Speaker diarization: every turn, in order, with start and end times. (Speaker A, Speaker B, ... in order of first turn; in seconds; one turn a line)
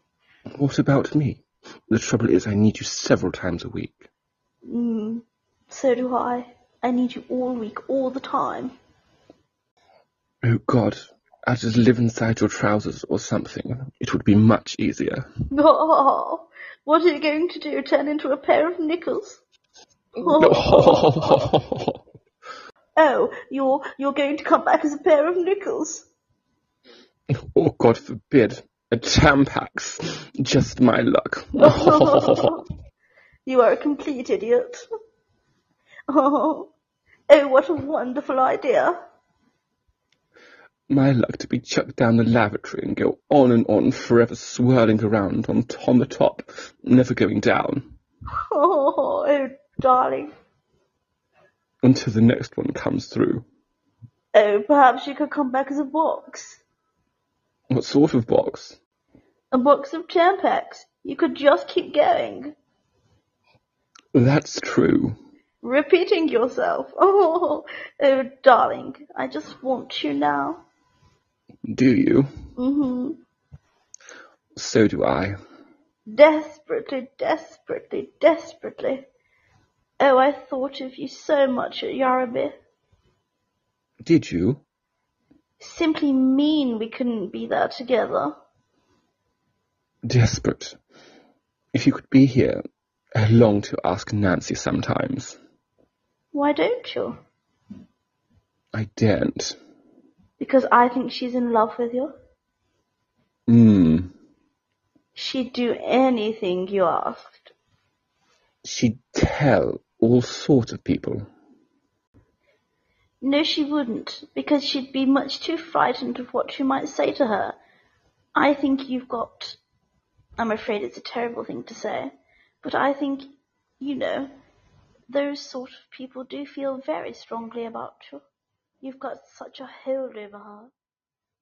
Speaker A: 0.5-4.1
Speaker B: 4.7-8.7
Speaker A: 10.4-15.3
Speaker B: 15.5-19.4
Speaker A: 20.2-22.0
Speaker B: 20.2-21.5
Speaker B: 23.0-26.1
Speaker A: 27.4-32.5
Speaker B: 31.6-32.6
Speaker B: 33.5-34.8
Speaker B: 36.1-36.7
Speaker B: 37.3-39.0
Speaker A: 40.9-48.0
Speaker B: 48.5-50.3
Speaker A: 51.8-53.5
Speaker B: 54.3-56.6
Speaker A: 57.7-58.8
Speaker B: 59.5-62.5
Speaker A: 64.1-65.2
Speaker B: 65.6-70.6
Speaker A: 71.7-72.3
Speaker B: 72.6-73.2
Speaker A: 74.6-75.4
Speaker B: 76.1-79.1
Speaker B: 80.0-82.6
Speaker A: 84.0-84.6
Speaker B: 85.6-88.3
Speaker A: 90.0-90.8
Speaker A: 91.7-92.6
Speaker A: 93.2-95.4
Speaker B: 96.3-97.2
Speaker A: 98.7-99.6
Speaker B: 100.4-102.1
Speaker A: 103.5-104.1
Speaker B: 105.2-107.5
Speaker A: 108.6-111.3
Speaker B: 113.2-117.6
Speaker B: 118.3-119.6
Speaker B: 120.4-124.3
Speaker B: 125.1-128.2
Speaker B: 128.8-130.7